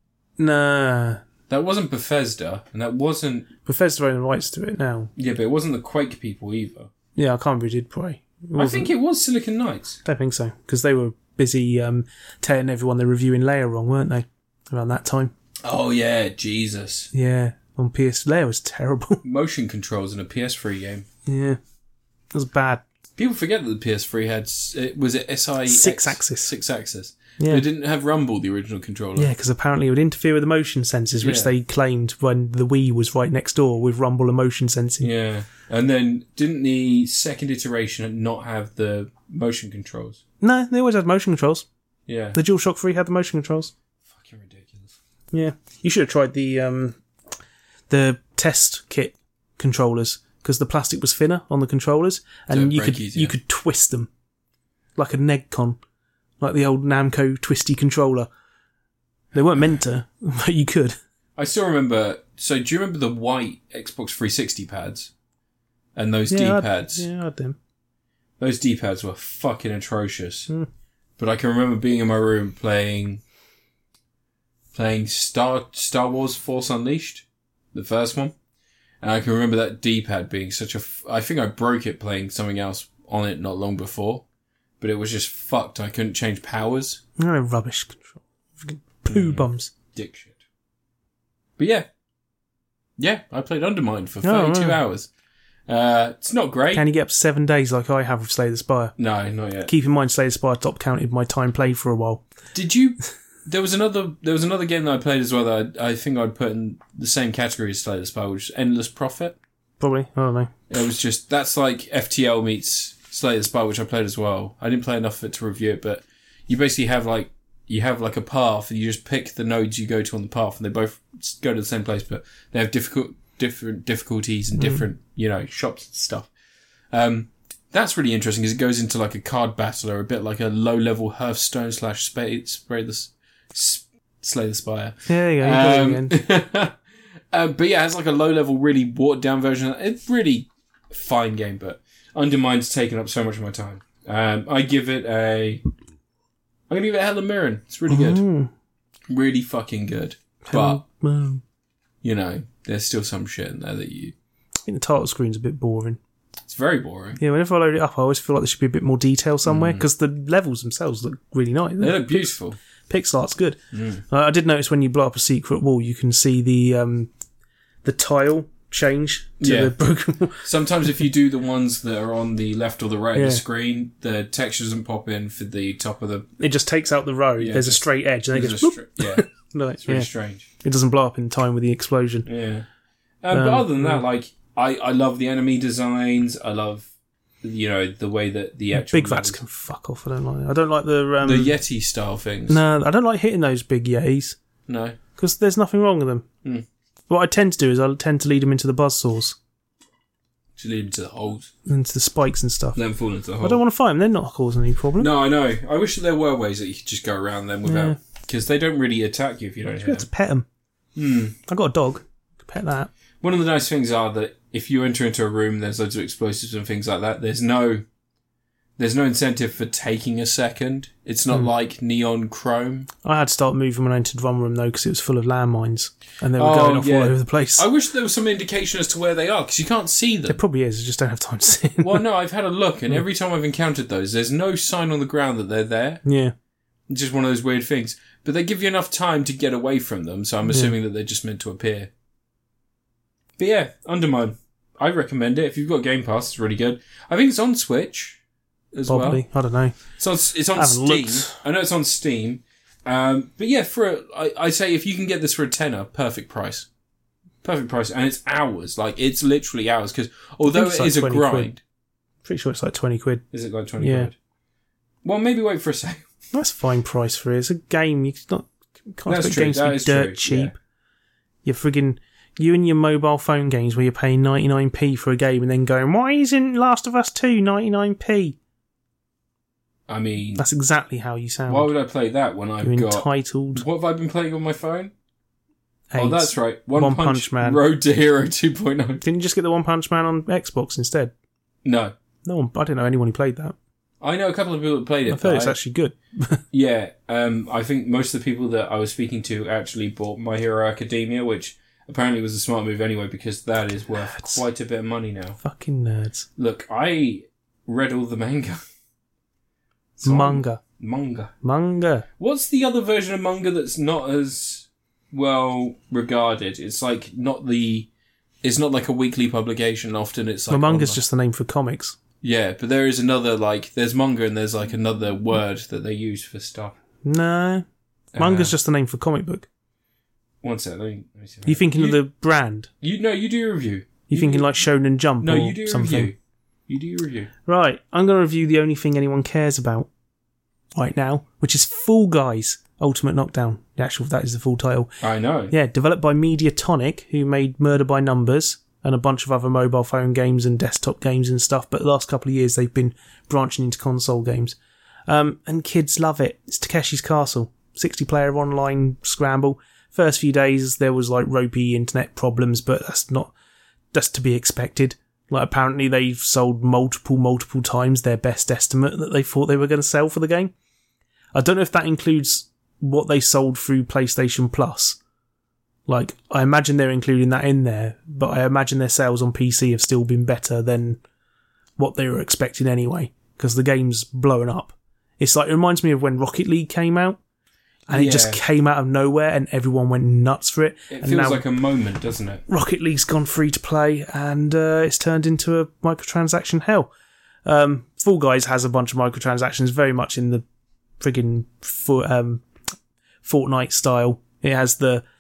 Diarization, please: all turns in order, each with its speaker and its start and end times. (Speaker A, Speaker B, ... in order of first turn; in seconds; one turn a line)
Speaker A: 0.4-1.2
Speaker B: 1.5-3.5
Speaker A: 3.6-5.1
Speaker B: 5.2-6.9
Speaker A: 7.2-8.9
Speaker B: 8.6-10.0
Speaker A: 10.1-15.3
Speaker B: 15.6-17.1
Speaker A: 17.1-19.2
Speaker B: 19.2-21.1
Speaker A: 21.3-21.6
Speaker A: 22.3-22.8
Speaker B: 23.2-29.3
Speaker A: 25.7-26.5
Speaker A: 27.4-27.6
Speaker A: 29.2-35.1
Speaker B: 31.2-31.5
Speaker B: 35.0-40.2
Speaker A: 40.4-41.7
Speaker B: 42.1-42.4
Speaker A: 42.4-43.7
Speaker B: 44.0-45.0
Speaker A: 45.3-47.0
Speaker A: 47.9-54.1
Speaker B: 52.5-53.4
Speaker A: 55.0-55.8
Speaker A: 56.4-58.3
Speaker A: 59.3-61.0
Speaker B: 61.4-65.1
Speaker B: 66.0-67.1
Speaker A: 66.3-67.6
Speaker B: 68.4-70.5
Speaker B: 71.2-73.2
Speaker B: 74.7-78.3
Speaker B: 79.0-84.2
Speaker B: 84.8-87.0
Speaker A: 87.2-89.7
Speaker B: 89.1-90.4
Speaker B: 91.6-91.9
Speaker B: 93.0-95.1
Speaker A: 94.2-94.8
Speaker B: 95.7-96.8
Speaker A: 96.7-99.0
Speaker B: 99.0-99.7
Speaker A: 99.7-102.2
Speaker B: 102.5-109.4
Speaker A: 109.8-110.5
Speaker B: 110.7-126.3
Speaker B: 126.9-136.8
Speaker A: 135.1-136.1
Speaker B: 137.3-145.6
Speaker B: 146.7-148.2
Speaker A: 147.9-148.5
Speaker B: 149.1-150.8
Speaker A: 150.5-151.4
Speaker B: 152.0-154.1
Speaker A: 154.7-156.0
Speaker B: 156.5-157.2
Speaker A: 157.2-162.4
Speaker B: 159.4-159.8
Speaker B: 161.8-162.6
Speaker A: 162.9-163.6
Speaker B: 163.7-164.0
Speaker A: 164.1-167.1
Speaker A: 167.8-170.4
Speaker B: 169.4-169.7
Speaker B: 170.4-176.3
Speaker A: 173.2-173.4
Speaker A: 176.4-180.1
Speaker B: 177.4-179.3
Speaker B: 179.8-180.5
Speaker A: 180.6-182.3
Speaker B: 182.3-182.7
Speaker B: 183.2-186.9
Speaker A: 183.3-184.0
Speaker B: 187.4-189.4
Speaker A: 188.7-191.6
Speaker B: 191.2-192.6
Speaker A: 192.5-194.4
Speaker B: 194.7-195.0
Speaker A: 195.2-196.3
Speaker A: 197.1-199.4
Speaker B: 200.6-201.5
Speaker A: 201.7-202.8
Speaker B: 202.8-203.6
Speaker A: 203.4-205.1
Speaker B: 205.0-210.1
Speaker A: 207.7-208.0
Speaker A: 209.7-210.5
Speaker B: 210.9-211.4
Speaker A: 211.5-212.9
Speaker B: 213.2-217.8
Speaker B: 218.8-222.9
Speaker A: 223.0-227.7
Speaker B: 226.4-230.4
Speaker A: 230.3-232.0
Speaker B: 231.8-236.0
Speaker A: 236.1-236.3
Speaker B: 236.9-241.9
Speaker A: 240.5-240.7
Speaker B: 243.4-248.2
Speaker B: 248.7-249.2
Speaker A: 248.9-249.8
Speaker B: 250.0-256.7
Speaker A: 250.6-251.4
Speaker B: 257.4-261.6
Speaker A: 260.5-261.5
Speaker A: 262.2-263.2
Speaker B: 263.3-264.1
Speaker A: 263.8-264.1
Speaker B: 265.0-266.1
Speaker A: 266.3-270.6
Speaker B: 269.1-270.5
Speaker A: 271.4-278.4
Speaker B: 279.9-280.4
Speaker A: 280.4-281.7
Speaker B: 281.5-284.9
Speaker A: 282.6-283.6
Speaker A: 285.9-287.6
Speaker B: 286.0-289.0
Speaker A: 289.0-291.1
Speaker B: 291.6-291.9
Speaker A: 292.2-293.6
Speaker B: 294.0-295.6
Speaker A: 295.1-296.4
Speaker B: 296.5-305.4
Speaker A: 304.0-304.4
Speaker A: 305.4-306.3
Speaker B: 306.4-308.6
Speaker B: 310.0-311.3
Speaker A: 310.0-310.6
Speaker A: 311.4-312.1
Speaker B: 312.2-317.9
Speaker B: 318.4-321.0
Speaker A: 320.5-322.0
Speaker B: 322.2-326.8
Speaker A: 327.0-327.6
Speaker B: 328.1-328.5
Speaker A: 328.2-329.5
Speaker B: 330.4-332.0
Speaker A: 331.5-332.7
Speaker B: 332.8-334.5
Speaker A: 334.1-336.1
Speaker B: 335.2-336.1
Speaker B: 336.7-337.3
Speaker A: 337.5-339.9
Speaker A: 340.8-344.9
Speaker B: 345.0-345.5
Speaker A: 345.5-363.3
Speaker A: 363.9-370.5
Speaker A: 371.4-375.0
Speaker A: 375.9-381.0
Speaker A: 381.8-387.2
Speaker A: 387.9-391.4
Speaker B: 387.9-388.4
Speaker B: 390.9-392.4
Speaker A: 392.5-396.9
Speaker A: 397.5-400.4
Speaker A: 401.0-402.4
Speaker A: 403.2-405.1